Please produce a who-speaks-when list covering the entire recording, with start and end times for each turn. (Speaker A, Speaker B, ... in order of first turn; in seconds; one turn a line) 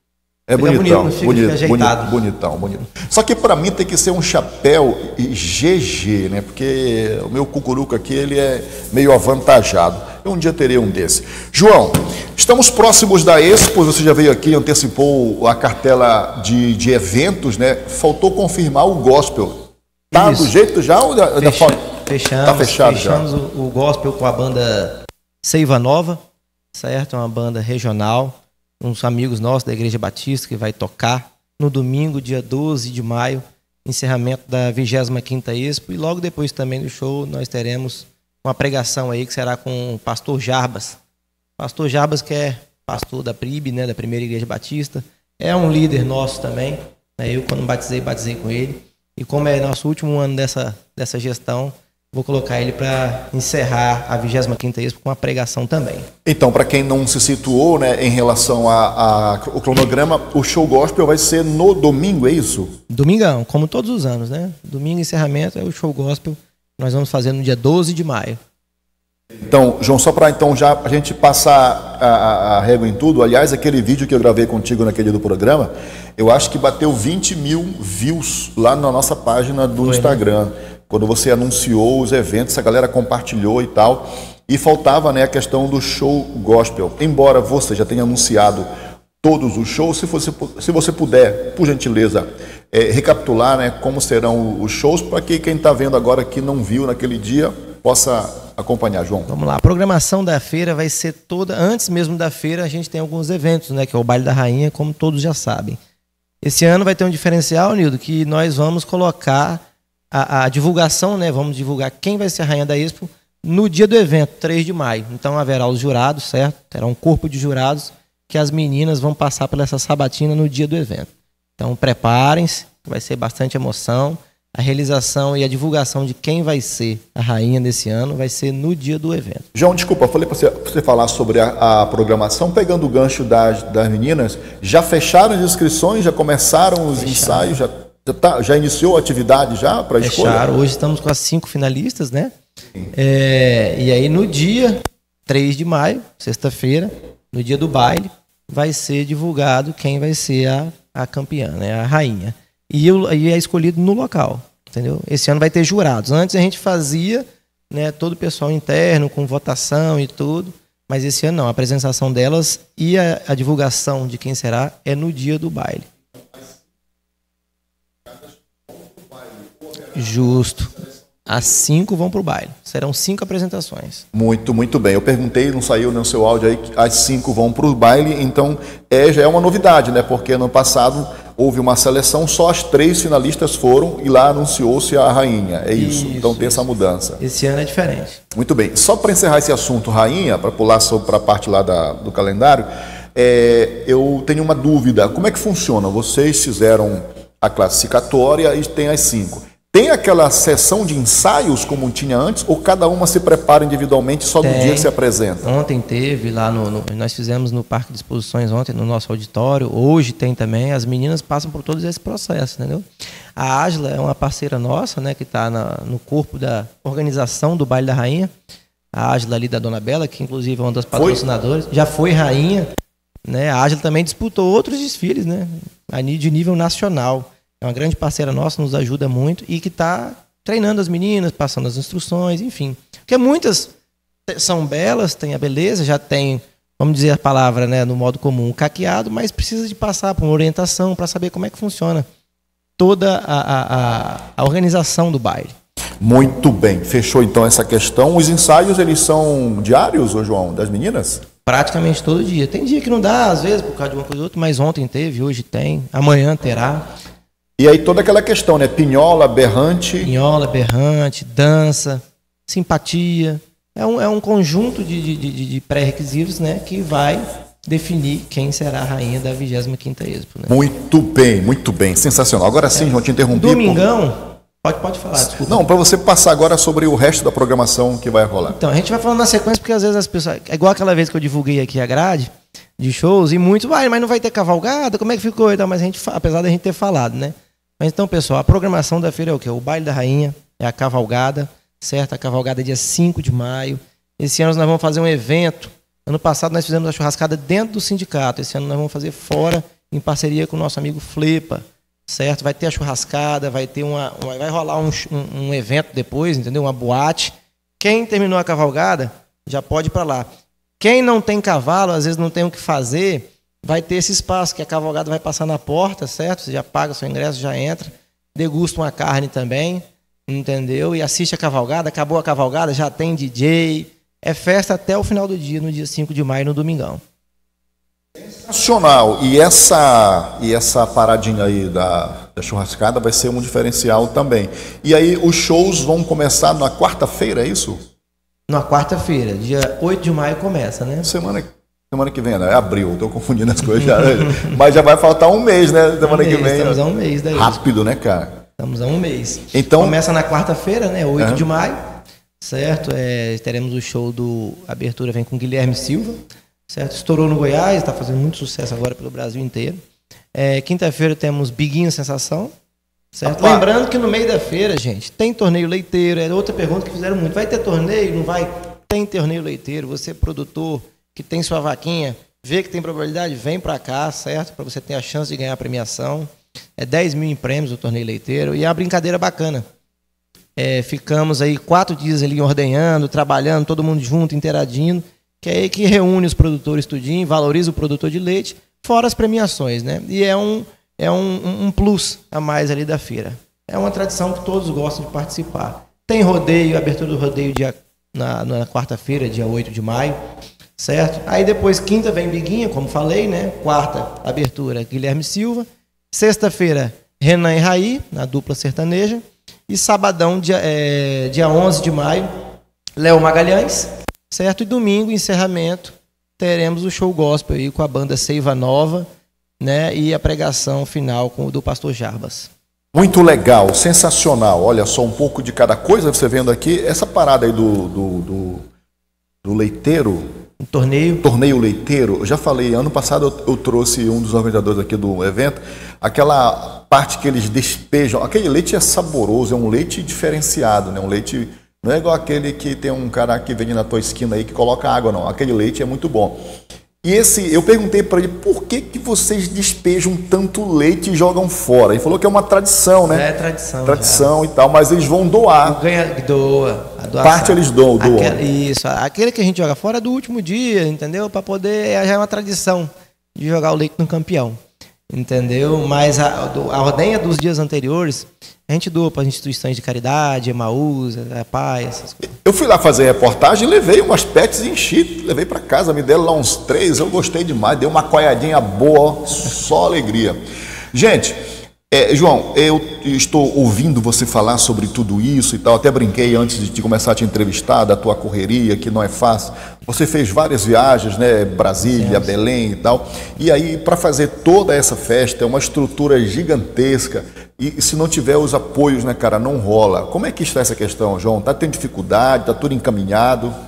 Speaker A: 0.5-21.8
Speaker B: 0.6-2.1
Speaker B: 20.1-20.5
Speaker B: 21.4-26.2
Speaker A: 22.4-23.3
Speaker B: 26.7-41.0
Speaker B: 41.6-56.1
Speaker A: 56.2-62.8
Speaker B: 62.9-68.4
Speaker A: 69.5-88.7
Speaker B: 79.8-80.2
Speaker A: 89.2-99.3
Speaker B: 99.3-105.8
Speaker B: 106.4-129.5
Speaker A: 129.6-140.5
Speaker B: 136.9-137.5
Speaker B: 140.0-142.3
Speaker B: 142.9-165.9
Speaker B: 169.9-170.7
Speaker B: 171.3-174.1
Speaker A: 174.1-187.2
Speaker B: 185.7-186.7
Speaker B: 187.2-188.2
Speaker A: 188.3-205.5
Speaker B: 204.4-204.9
Speaker B: 205.4-212.9
Speaker B: 213.4-218.3
Speaker B: 218.9-222.7
Speaker A: 220.9-221.2
Speaker B: 223.3-233.7
Speaker B: 234.3-242.1
Speaker B: 242.8-245.6
Speaker A: 246.0-251.3
Speaker B: 251.5-256.9
Speaker A: 257.6-260.1
Speaker B: 260.0-270.6
Speaker A: 270.5-273.9
Speaker B: 272.7-275.6
Speaker A: 275.2-278.6
Speaker B: 278.5-310.3
Speaker B: 310.8-327.0
Speaker A: 328.4-337.8
Speaker B: 338.5-341.1
Speaker A: 341.0-348.4
Speaker B: 343.8-344.5
Speaker B: 346.0-347.6
Speaker B: 348.6-351.8
Speaker A: 349.5-350.0
Speaker A: 351.2-351.5
Speaker B: 352.4-359.8
Speaker B: 360.4-362.5
Speaker B: 363.1-379.7
Speaker A: 363.2-363.7
Speaker B: 380.6-400.2
Speaker B: 400.8-412.3
Speaker B: 413.0-419.1
Speaker B: 419.6-422.5
Speaker A: 422.9-428.6
Speaker A: 429.4-430.3
Speaker B: 430.6-431.2
Speaker A: 431.2-446.4
Speaker A: 447.0-453.3
Speaker B: 453.1-454.3
Speaker A: 453.9-455.8
Speaker B: 455.6-464.6
Speaker A: 457.2-458.4
Speaker B: 465.1-472.3
Speaker A: 472.4-480.4
Speaker A: 480.9-503.5
Speaker B: 491.9-492.4